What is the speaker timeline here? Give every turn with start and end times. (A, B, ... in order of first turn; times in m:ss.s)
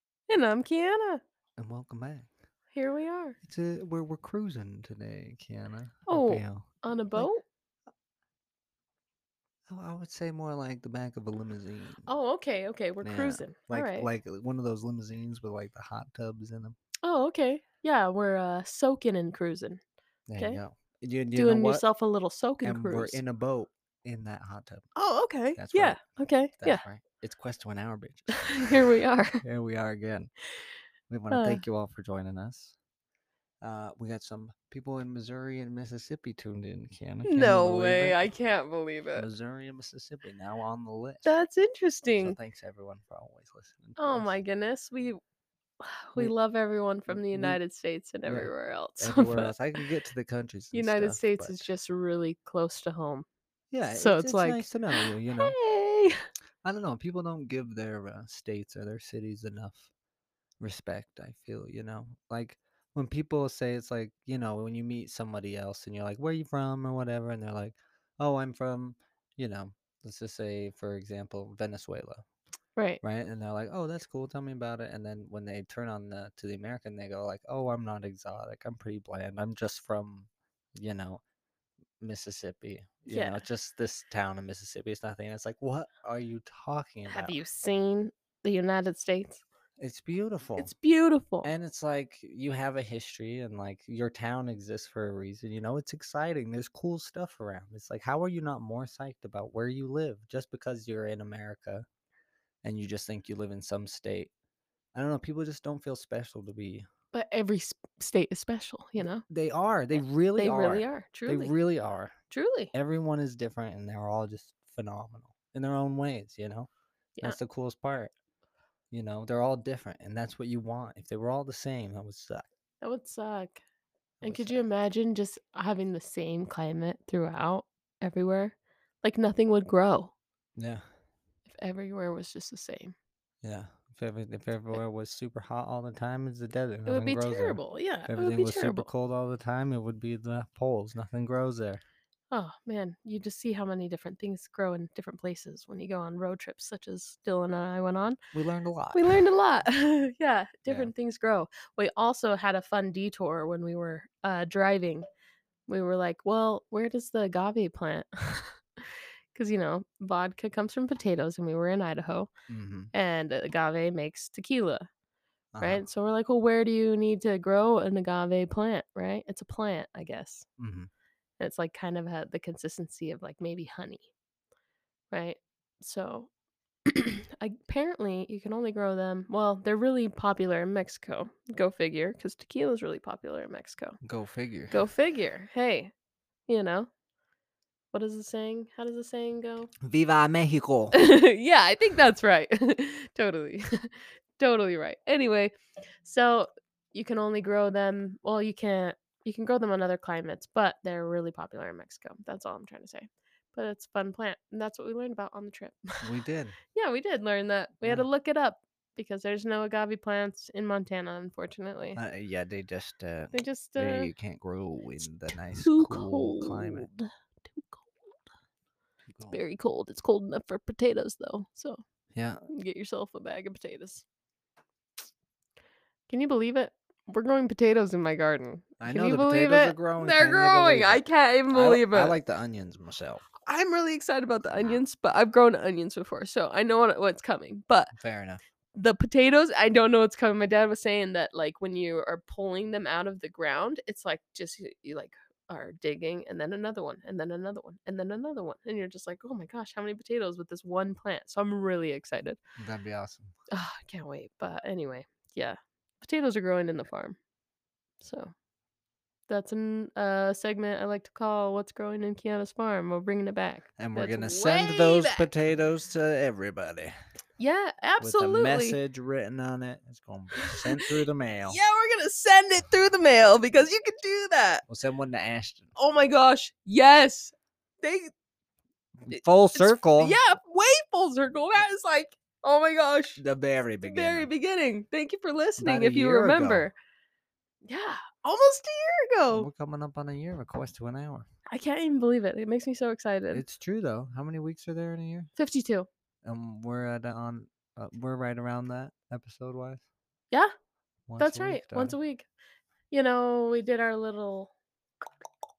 0:00.3-0:01.2 A
0:01.6-0:02.3 B
0:02.7-0:03.4 A
0:03.4-0:07.3 B
0:06.1-0:07.4 A
0:09.7-0:12.1 B
0:12.0-0:14.1 A
0:13.0-0:16.8 B
0:17.0-0:19.8 A
0:20.3-0:21.8 B
0:21.3-0:23.2 A
0:22.6-0:24.8 B
0:24.9-0:26.8 A
0:25.6-0:26.0 B
0:26.6-0:28.9 B
0:28.3-0:29.4 A
0:29.4-0:30.3 B
0:31.1-0:32.8 B
0:31.3-0:31.6 A
0:33.6-0:38.3 B
0:37.2-0:39.3 A
0:39.2-0:41.2 B
0:41.2-0:42.4 A
0:42.1-0:44.3 B
0:44.0-0:45.2 A
0:45.8-0:49.5 A
0:47.1-0:47.6 B
0:48.2-0:51.6 B
0:50.7-0:53.2 A
0:53.7-0:55.5 B
0:53.9-0:56.3 A
0:56.6-0:59.9 B
1:00.6-1:12.2 B
1:13.0-1:21.2 B
1:22.0-1:27.4 B
1:23.1-1:23.4 A
1:27.1-1:29.4 A
1:29.8-1:30.7 B
1:30.6-1:31.5 A
1:31.4-1:41.8 B
1:42.6-1:44.3 B
1:44.9-1:46.9 B
1:47.1-1:49.2 A
1:49.2-1:52.1 B
1:50.4-1:51.5 A
1:52.3-1:52.7 A
1:52.7-1:56.7 B
1:57.2-1:58.1 B
1:58.9-2:02.5 B
2:02.8-2:03.6 A
2:04.2-2:10.1 A
2:04.2-2:04.6 B
2:10.6-2:10.8 B
2:11.5-2:12.9 A
2:13.4-2:21.8 B
2:16.8-2:18.9 A
2:22.3-2:28.2 A
2:28.3-2:29.2 B
2:28.9-2:35.1 A
2:35.7-2:42.3 A
2:42.5-2:42.9 B
2:42.9-2:44.9 A
2:45.5-2:45.8 B
2:45.6-2:50.5 A
2:50.6-2:50.9 B
2:51.4-2:54.1 A
2:55.1-2:56.3 A
2:56.8-3:04.0 A
3:04.0-3:04.8 B
3:04.7-3:05.9 A
3:06.5-3:06.9 A
3:07.9-3:09.7 A
3:09.8-3:11.0 B
3:10.9-3:26.0 A
3:26.0-3:26.6 B
3:26.7-3:32.0 A
3:32.0-3:36.9 B
3:33.3-3:34.1 A
3:35.5-3:38.1 A
3:39.0-3:39.4 B
3:39.3-3:41.8 A
3:42.1-3:42.4 B
3:42.5-3:44.0 A
3:46.1-3:52.1 A
3:48.8-3:53.3 B
3:53.4-3:57.9 A
3:57.9-3:58.4 B
3:58.7-4:12.4 A
4:12.6-4:13.3 B
4:13.5-4:17.2 A
4:18.0-4:18.3 A
4:19.3-4:25.3 A
4:23.8-4:26.9 B
4:27.4-4:28.8 A
4:28.0-4:31.6 B
4:30.4-4:30.8 A
4:31.5-4:34.6 A
4:34.7-4:35.7 B
4:35.8-4:38.1 A
4:39.0-4:40.2 B
4:39.1-4:43.2 A
4:43.2-4:44.3 B
4:43.8-4:46.7 A
4:45.6-4:46.7 B
4:47.6-4:49.5 A
4:49.3-4:51.3 B
4:51.5-4:53.4 A
4:53.3-4:55.3 B
4:55.4-4:55.9 A
4:56.2-4:59.8 B
5:01.1-5:02.0 B
5:01.2-5:02.3 A
5:02.9-5:04.5 A